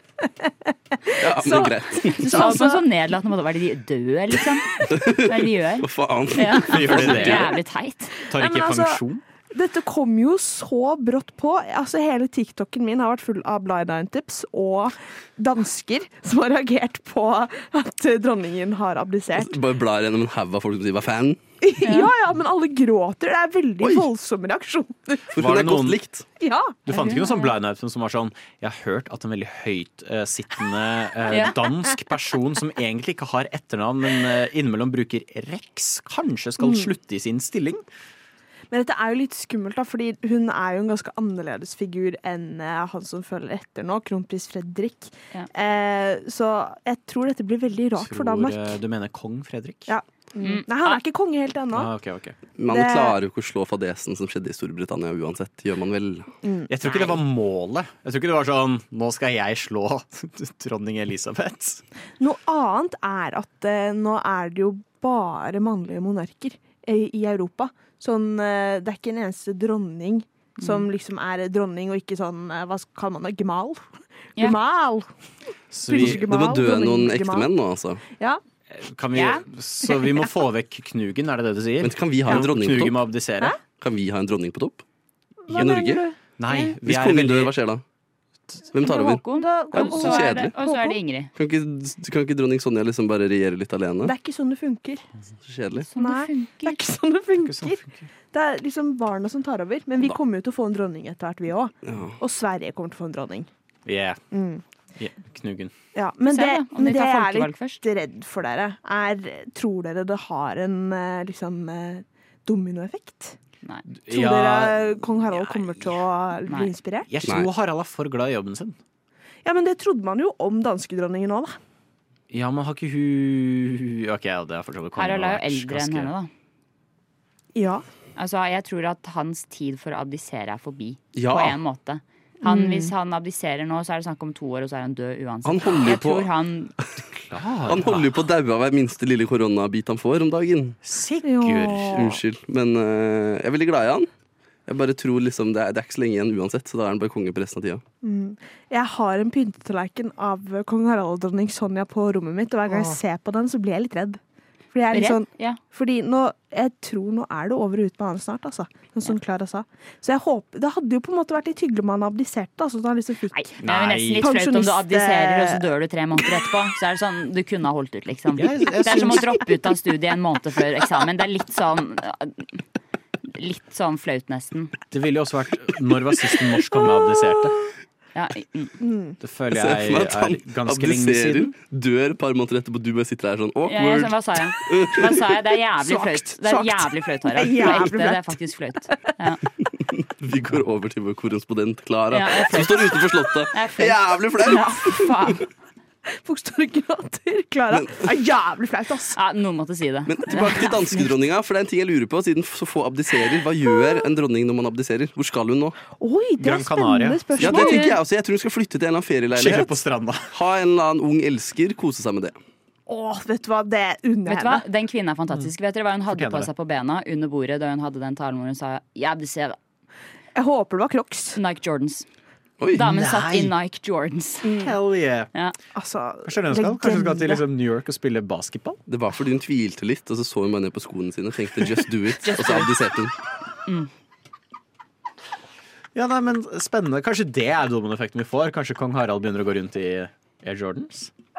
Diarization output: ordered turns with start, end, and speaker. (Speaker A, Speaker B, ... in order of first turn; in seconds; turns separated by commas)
Speaker A: 0.2-2.8, Speaker B: 1.2-2.6, Speaker C: 2.1-8.2, Speaker B: 4.9-7.5, Speaker D: 6.7-7.6, Speaker D: 8.3-9.2, Speaker A: 8.4-9.0, Speaker A: 9.5-19.6, Speaker B: 19.4-21.4, Speaker A: 21.6-25.3, Speaker C: 21.8-22.1, Speaker B: 23.8-24.1, Speaker B: 25.3-26.3, Speaker D: 25.4-26.0, Speaker A: 26.4-27.3, Speaker D: 26.9-37.8, Speaker C: 26.9-27.5, Speaker C: 31.3-31.5, Speaker A: 36.6-36.9, Speaker A: 38.7-48.6, Speaker D: 48.0-49.9, Speaker A: 49.9-51.9, Speaker C: 50.4-51.0, Speaker D: 51.7-52.4, Speaker B: 52.6-56.3, Speaker A: 52.7-53.1, Speaker A: 56.4-56.7, Speaker D: 56.7-61.8, Speaker C: 56.9-57.2, Speaker A: 62.2-75.1, Speaker C: 70.6-70.9, Speaker D: 75.7-76.3, Speaker A: 75.9-77.5, Speaker B: 75.9-78.0, Speaker D: 78.7-83.5, Speaker C: 79.1-79.4, Speaker B: 81.8-83.1, Speaker B: 83.8-84.8, Speaker A: 85.5-86.7, Speaker B: 85.5-86.0, Speaker D: 86.4-87.5, Speaker B: 86.8-87.8, Speaker B: 88.7-89.2, Speaker C: 88.8-91.3, Speaker A: 89.3-91.0, Speaker B: 89.7-90.5, Speaker B: 91.3-94.2, Speaker A: 94.0-95.0, Speaker B: 95.5-95.9, Speaker C: 95.8-96.8, Speaker A: 96.0-97.8, Speaker D: 97.4-98.1, Speaker A: 98.3-103.5, Speaker B: 101.8-102.2, Speaker D: 103.9-104.3, Speaker A: 104.3-104.6, Speaker D: 105.0-105.7, Speaker A: 106.0-113.4, Speaker C: 106.3-107.8, Speaker D: 114.0-116.0, Speaker A: 114.1-117.1, Speaker C: 116.5-116.7, Speaker D: 117.1-118.8, Speaker A: 119.5-121.6, Speaker D: 122.3-126.1, Speaker C: 125.0-126.3, Speaker A: 127.5-127.8, Speaker C: 128.2-136.7, Speaker B: 131.2-131.6, Speaker A: 132.4-132.9, Speaker B: 135.4-136.3, Speaker D: 137.3-138.2, Speaker B: 137.7-140.8, Speaker D: 140.8-142.1, Speaker A: 141.2-142.2, Speaker B: 141.9-144.1, Speaker B: 144.7-147.8, Speaker A: 148.0-154.2, Speaker A: 154.7-163.5, Speaker C: 154.9-155.6, Speaker C: 163.3-172.6, Speaker D: 163.6-164.3, Speaker A: 164.2-165.7, Speaker D: 168.4-169.3, Speaker A: 168.9-169.3, Speaker C: 173.3-174.8, Speaker D: 174.9-177.6, Speaker C: 178.2-178.8, Speaker A: 178.8-179.2, Speaker D: 179.2-181.5, Speaker B: 179.5-185.2, Speaker C: 183.7-189.4, Speaker A: 185.8-188.4, Speaker B: 190.0-194.9, Speaker C: 192.1-195.4, Speaker A: 194.4-195.3, Speaker A: 196.1-199.2, Speaker B: 197.7-197.9, Speaker C: 199.1-201.1, Speaker B: 200.1-205.8, Speaker A: 206.0-207.9, Speaker D: 206.4-207.2, Speaker B: 207.4-209.8, Speaker C: 207.4-207.9, Speaker D: 209.3-210.3, Speaker B: 210.3-212.4, Speaker A: 212.9-214.7, Speaker C: 214.3-219.6, Speaker D: 216.1-216.5, Speaker A: 220.3-221.4, Speaker C: 221.3-222.1, Speaker B: 222.6-222.9, Speaker C: 222.7-224.6, Speaker D: 222.8-223.6, Speaker A: 224.4-224.8, Speaker D: 224.6-225.3, Speaker A: 225.8-227.4, Speaker D: 226.2-228.8, Speaker B: 228.9-233.1, Speaker C: 232.2-232.7, Speaker D: 235.9-241.1